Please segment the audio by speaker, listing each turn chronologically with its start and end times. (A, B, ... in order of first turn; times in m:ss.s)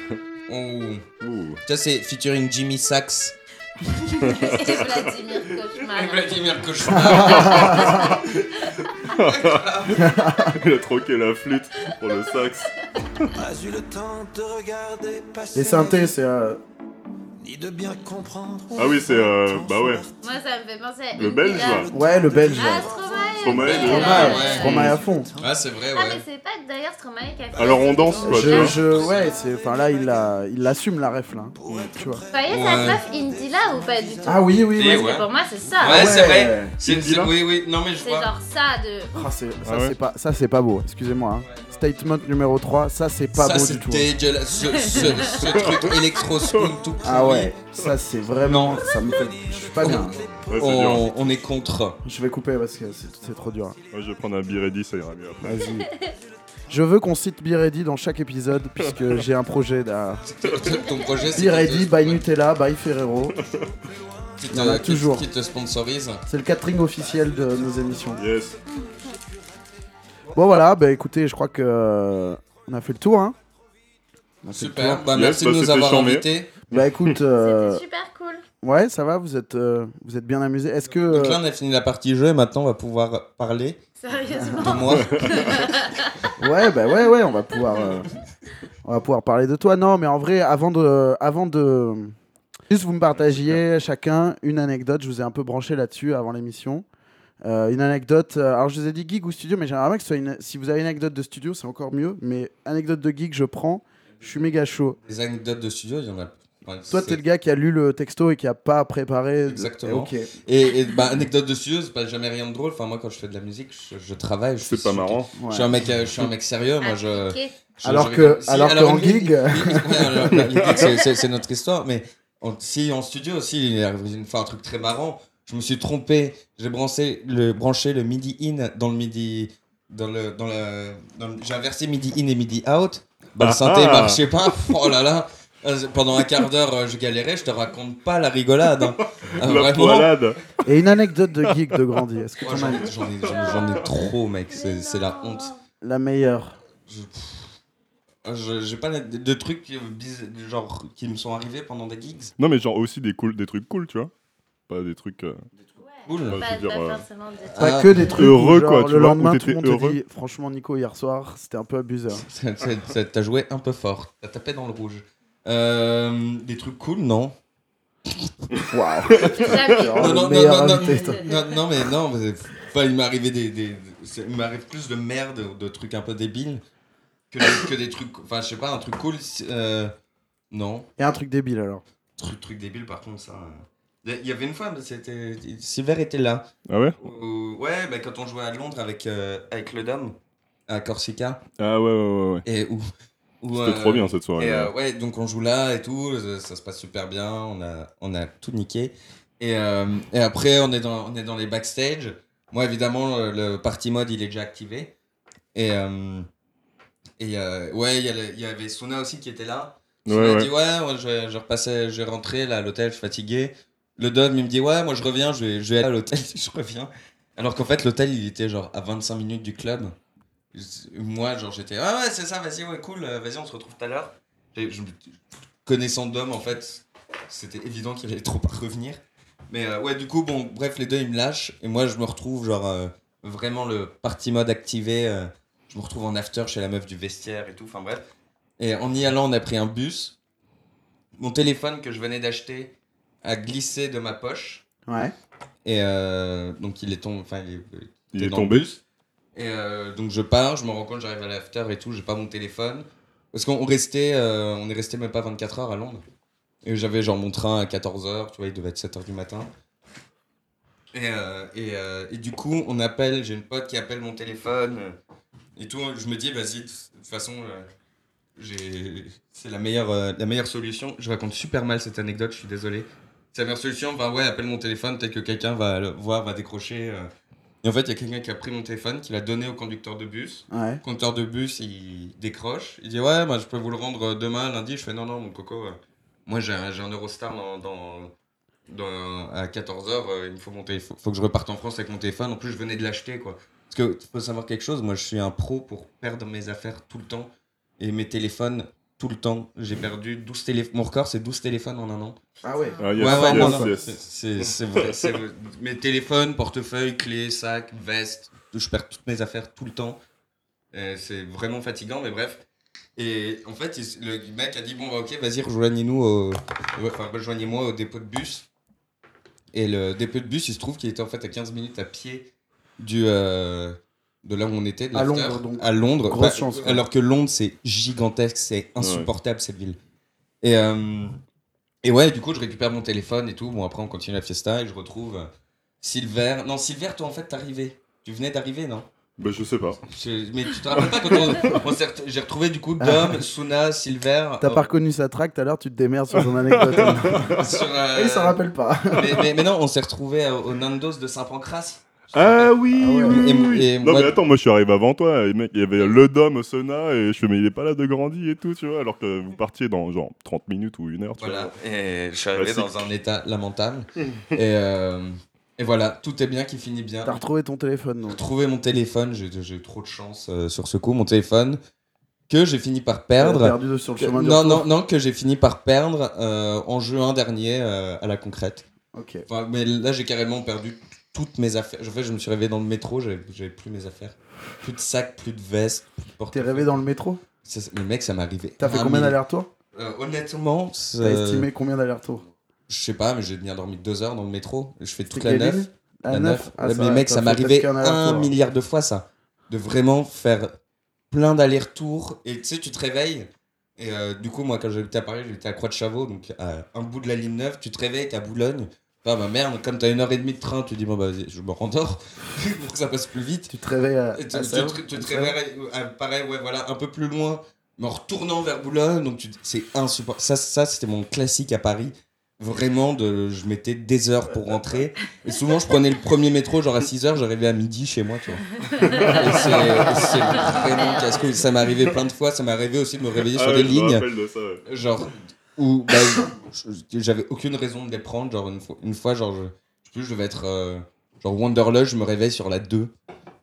0:00.5-0:01.1 A
0:01.2-0:01.6 B
0:01.6-0:04.8 A
0:04.2-0:06.5 C
0:04.2-0:04.6 B
0:05.7-0:10.2 A
0:06.9-0:08.2 D
0:09.1-0:10.0 B
0:10.0-0:10.5 D
0:10.5-0:13.3 B
0:13.3-0:16.1 E
0:15.5-0:16.6 D
0:17.4-0:20.1 E
0:18.8-0:20.0 B
0:20.2-0:21.9 C
0:21.2-0:21.9 B
0:21.6-0:23.9 E
0:21.9-0:22.9 D
0:22.6-0:24.8 C
0:23.4-0:24.9 B
0:23.6-0:26.2 A
0:23.8-0:25.3 D
0:25.1-0:25.5 E
0:25.9-0:29.2 C
0:27.6-0:28.8 B
0:28.2-0:32.2 D
0:28.8-0:29.3 A
0:31.6-0:34.5 E
0:32.3-0:36.2 C
0:32.5-0:33.0 A
0:34.2-0:35.1 D
0:34.7-0:35.3 A
0:35.8-0:38.3 A
0:35.8-0:37.3 D
0:38.0-0:39.3 C
0:39.1-0:44.1 D
0:39.6-0:40.0 B
0:41.4-0:41.7 A
0:43.4-0:47.6 A
0:44.7-0:45.4 C
0:47.0-0:50.2 D
0:48.4-0:49.0 A
0:49.8-0:52.0 A
0:49.8-0:51.1 B
0:50.2-0:50.5 E
0:52.0-0:53.8 D
0:53.9-0:55.6 B
0:55.4-0:55.9 D
0:56.7-1:00.2 D
1:00.2-1:02.3 A
1:00.8-1:01.2 C
1:01.4-1:03.4 D
1:03.4-1:03.7 B
1:04.4-1:06.2 A
1:04.5-1:05.3 D
1:06.3-1:08.2 D
1:07.0-1:08.2 E
1:08.2-1:08.6 B
1:08.7-1:09.1 C
1:10.3-1:13.4 D
1:14.4-1:15.1 D
1:14.5-1:16.5 A
1:15.1-1:17.2 B
1:16.7-1:17.8 D
1:17.4-1:18.4 C
1:18.6-1:21.4 D
1:21.1-1:23.8 A
1:24.0-1:26.2 C
1:24.5-1:25.8 A
1:24.9-1:25.5 B
1:26.4-1:28.1 D
1:28.8-1:32.2 D
1:32.7-1:36.8 D
1:33.3-1:33.6 B
1:37.4-1:45.0 D
1:45.0-1:47.2 A
1:46.9-1:50.3 D
1:49.5-2:20.2 A
1:54.6-1:55.3 B
1:55.4-1:55.7 D
1:56.8-1:57.5 C
1:57.8-2:00.1 D
2:00.4-2:00.9 B
2:13.4-2:14.2 B
2:18.8-2:20.4 B
2:20.6-2:22.9 D
2:22.4-2:25.5 A
2:23.3-2:23.6 B
2:23.3-2:23.9 C
2:24.5-2:25.6 C
2:25.8-2:26.6 D
2:26.8-2:27.6 A
2:28.2-2:32.3 A
2:32.4-2:34.1 B
2:34.7-2:35.4 B
2:36.0-2:36.4 A
2:36.0-2:38.2 C
2:36.3-2:37.0 B
2:37.4-2:38.2 A
2:37.6-2:42.2 D
2:38.0-2:40.0 B
2:42.1-2:47.4 A
2:48.7-2:51.2 D
2:49.2-2:49.5 B
2:49.2-2:50.2 C
2:50.0-2:56.6 A
2:50.8-2:51.6 C
2:57.3-2:59.9 A
3:00.5-3:00.9 A
3:01.0-3:01.8 D
3:02.2-3:06.5 A
3:06.7-3:07.0 B
3:07.0-3:10.2 A
3:10.7-3:11.4 A
3:11.6-3:12.4 B
3:12.4-3:12.8 A
3:13.4-3:24.9 A
3:13.5-3:14.7 B
3:25.5-3:26.3 A
3:27.2-3:40.0 A
3:30.1-3:30.5 B
3:40.5-3:58.0 A
3:58.6-4:00.2 A
4:01.2-4:04.6 A
4:04.9-4:05.1 D
4:05.6-4:08.8 A
4:08.1-4:08.7 B
4:09.4-4:16.0 A
4:16.6-4:19.5 A
4:20.9-4:25.0 A
4:25.6-4:27.7 A
4:28.4-4:37.1 A
4:37.6-4:48.1 A
4:40.5-4:40.8 D
4:48.7-5:02.2 A
5:02.4-5:03.7 D
5:02.6-5:02.9 C
5:02.8-5:03.9 B
5:03.0-5:10.0 A
5:10.7-5:12.4 A
5:13.0-5:18.5 A
5:19.5-5:29.8 A
5:24.9-5:26.8 D
5:28.8-5:29.1 B
5:30.4-5:31.2 A
5:31.8-5:35.3 A
5:35.8-5:38.9 A
5:39.2-5:39.8 B
5:39.8-5:44.7 A
5:40.8-5:41.6 B
5:42.8-5:43.2 D
5:44.4-5:47.3 D
5:46.4-5:47.6 B
5:46.8-5:48.4 A
5:47.9-5:49.0 D
5:48.9-5:54.2 A
5:52.1-6:01.5 B
5:52.7-5:53.2 D
6:01.2-6:07.2 A
6:02.4-6:02.8 B
6:07.0-6:08.2 D
6:08.1-6:11.6 A
6:12.3-6:18.7 A
6:13.2-6:14.6 D
6:18.9-6:19.3 D
6:19.3-6:26.8 A
6:26.3-6:27.2 D
6:27.4-6:29.2 A
6:28.6-6:29.5 D
6:29.7-6:31.5 A
6:31.0-6:32.3 D
6:32.7-6:40.5 A
6:35.1-6:38.3 D
6:41.1-6:53.5 A
6:53.5-6:55.4 D
6:54.1-7:14.1 A
7:08.7-7:09.4 C
7:08.8-7:09.8 B
7:10.4-7:11.3 C
7:13.3-7:14.6 B
7:14.6-7:22.9 A